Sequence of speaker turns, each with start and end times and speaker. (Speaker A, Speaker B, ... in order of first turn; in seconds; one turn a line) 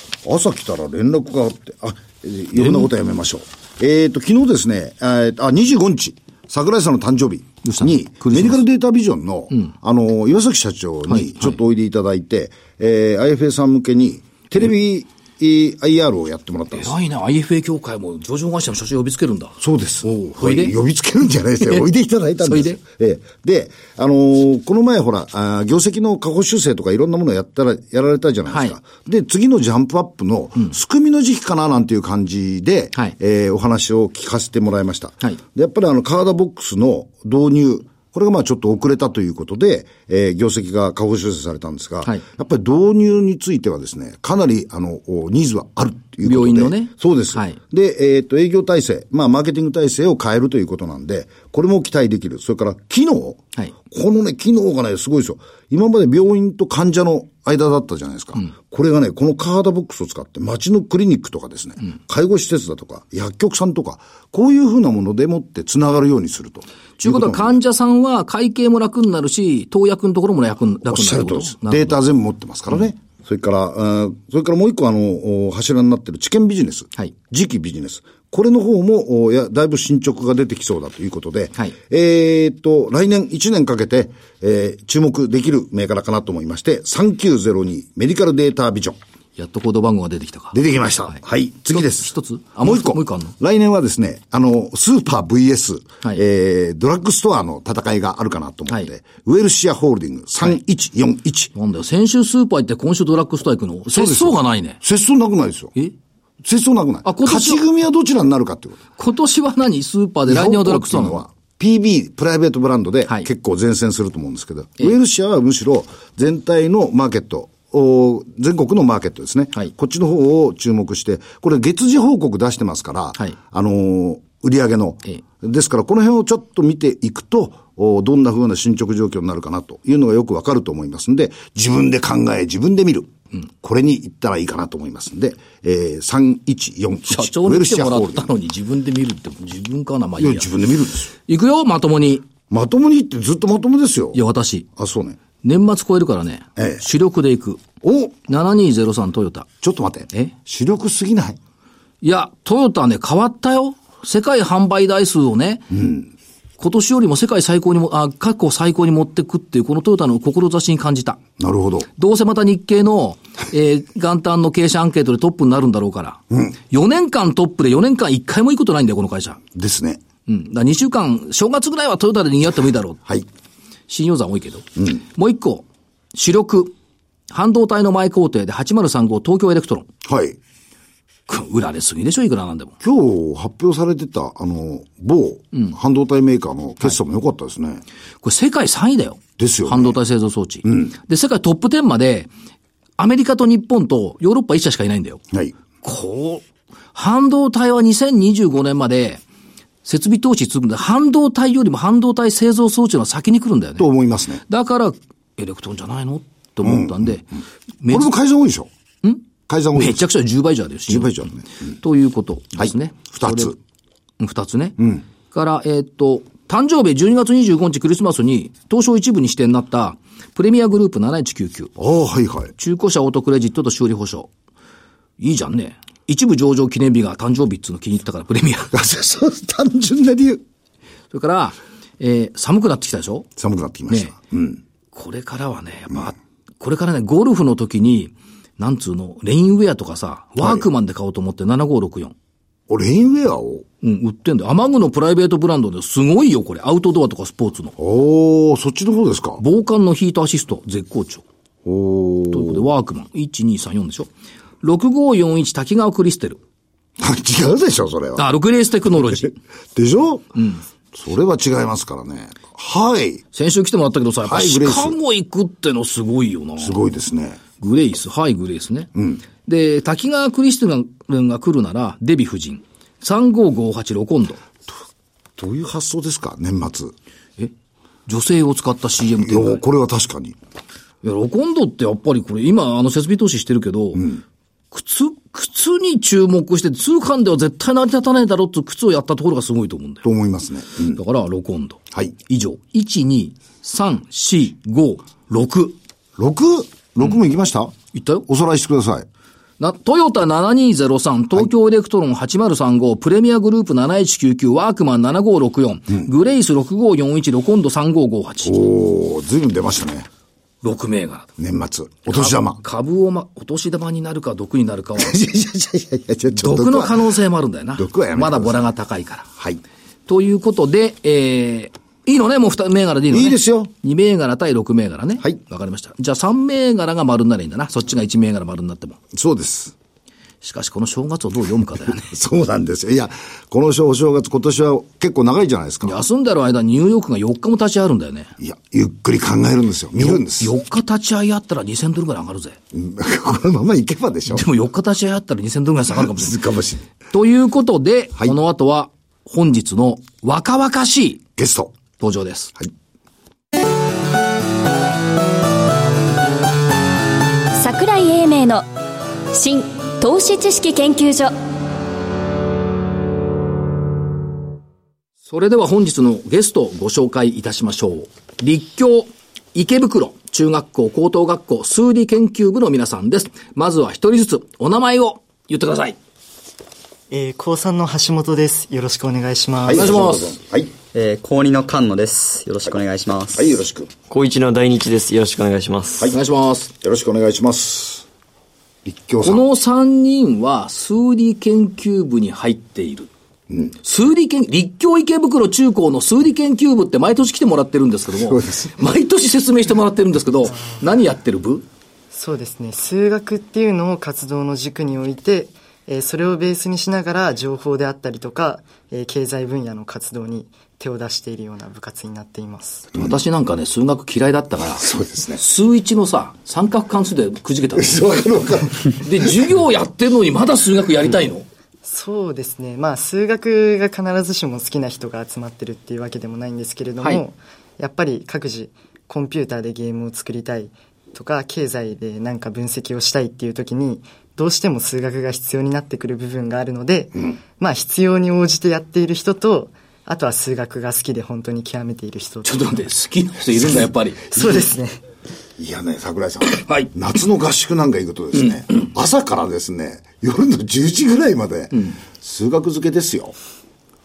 Speaker A: 0.2-16.9
Speaker B: 2.6-2.9
Speaker B: 7.6-8.6
Speaker B: 11.1-11.6
Speaker B: 16.7-20.8
Speaker A: 19.6-67.6
Speaker B: 21.6-21.9
Speaker B: 22.4-22.8
Speaker B: 28.5-28.8
Speaker B: 46.2-47.6
Speaker B: 67.0-72.0
Speaker A: 70.8-89.0
Speaker B: 89.4-90.6
Speaker A: 90.5-101.5
Speaker B: 91.7-93.3
Speaker B: 101.5-104.8
Speaker A: 103.9-105.8
Speaker A: 106.4-108.8
Speaker B: 107.0-107.6
Speaker B: 109.0-111.2
Speaker A: 110.3-138.3
Speaker B: 137.1-140.5
Speaker A: 140.2-141.1
Speaker B: 141.2-142.3
Speaker A: 142.5-144.2
Speaker B: 144.1-144.7
Speaker A: 144.8-145.2
Speaker B: 145.4-147.6
Speaker A: 146.6-146.8
Speaker A: 147.8-148.1
Speaker B: 148.3-149.5
Speaker A: 149.6-151.4
Speaker B: 152.0-155.8
Speaker A: 155.7-156.1
Speaker B: 156.6-161.2
Speaker A: 161.4-161.9
Speaker B: 162.0-169.4
Speaker A: 169.5-170.0
Speaker B: 170.3-173.0
Speaker B: 173.9-176.7
Speaker B: 177.3-179.9
Speaker A: 180.0-180.4
Speaker B: 181.3-182.8
Speaker A: 182.8-187.8
Speaker B: 188.2-192.3
Speaker A: 189.4-190.0
Speaker A: 190.6-190.9
Speaker B: 193.0-195.2
Speaker B: 195.8-199.2
Speaker B: 199.8-203.9
Speaker A: 203.8-204.4
Speaker B: 204.5-207.3
Speaker A: 206.6-207.2
Speaker B: 207.8-208.1
Speaker A: 207.9-208.7
Speaker A: 209.5-210.1
Speaker B: 209.7-211.3
Speaker A: 210.9-211.7
Speaker B: 211.8-213.6
Speaker A: 212.6-213.6
Speaker B: 214.2-221.7
Speaker A: 221.8-222.5
Speaker B: 222.6-224.3
Speaker B: 225.2-228.7
Speaker A: 228.7-230.4
Speaker B: 231.1-233.3
Speaker A: 233.4-234.6
Speaker B: 234.9-242.1
Speaker A: 240.4-240.7
Speaker A: 242.7-243.7
Speaker B: 243.8-247.7
Speaker A: 247.8-249.4
Speaker B: 249.4-251.2
Speaker A: 251.7-252.7
Speaker B: 252.3-254.1
Speaker B: 254.6-256.4
Speaker A: 257.0-258.3
Speaker B: 258.2-259.3
Speaker A: 259.2-260.4
Speaker B: 260.4-260.6
Speaker A: 260.9-263.2
Speaker B: 263.3-266.8
Speaker A: 264.2-265.0
Speaker A: 266.6-267.4
Speaker B: 267.6-268.9
Speaker A: 268.9-269.2
Speaker B: 269.4-274.4
Speaker A: 275.4-276.9
Speaker B: 278.1-279.6
Speaker A: 279.2-280.4
Speaker B: 281.0-284.1
Speaker A: 283.9-284.2
Speaker B: 284.7-290.1
Speaker A: 290.0-291.0
Speaker B: 290.9-295.8
Speaker A: 296.2-297.7
Speaker B: 297.9-298.2
Speaker A: 298.3-299.1
Speaker B: 299.6-308.6
Speaker A: 308.4-310.1
Speaker B: 310.6-311.3
Speaker A: 311.4-312.6
Speaker B: 312.1-315.1
Speaker A: 315.0-317.1
Speaker B: 316.4-319.3
Speaker A: 317.8-318.6
Speaker B: 320.1-329.0
Speaker A: 323.1-323.7
Speaker A: 329.1-329.8
Speaker B: 330.4-332.1
Speaker A: 331.9-336.0
Speaker B: 335.8-338.3
Speaker A: 338.4-340.5
Speaker B: 340.0-342.6
Speaker A: 342.7-344.5
Speaker B: 344.3-346.4
Speaker A: 345.9-346.8
Speaker B: 347.1-351.2
Speaker A: 351.4-351.8
Speaker B: 352.0-352.6
Speaker C: 357.6-358.7
Speaker C: 359.3-361.4
Speaker B: 365.3-376.0
Speaker D: 377.1-380.0
Speaker A: 379.6-380.7
Speaker B: 379.7-380.4
Speaker E: 380.9-383.6
Speaker A: 383.3-383.9
Speaker F: 384.1-386.1
Speaker B: 386.1-386.7
Speaker A: 386.8-388.1
Speaker A: 388.9-389.4
Speaker B: 389.2-393.1
Speaker B: 393.8-401.7
Speaker A: 398.1-398.8
Speaker D: 402.1-412.9
Speaker B: 412.9-414.9
Speaker A: 414.8-415.4
Speaker B: 415.4-418.2
Speaker A: 417.8-419.4
Speaker B: 419.0-421.5
Speaker D: 421.8-442.8
Speaker B: 442.4-444.6
Speaker D: 444.3-445.0
Speaker A: 445.6-453.4
Speaker B: 446.5-446.9
Speaker B: 448.4-448.9
Speaker B: 451.7-452.0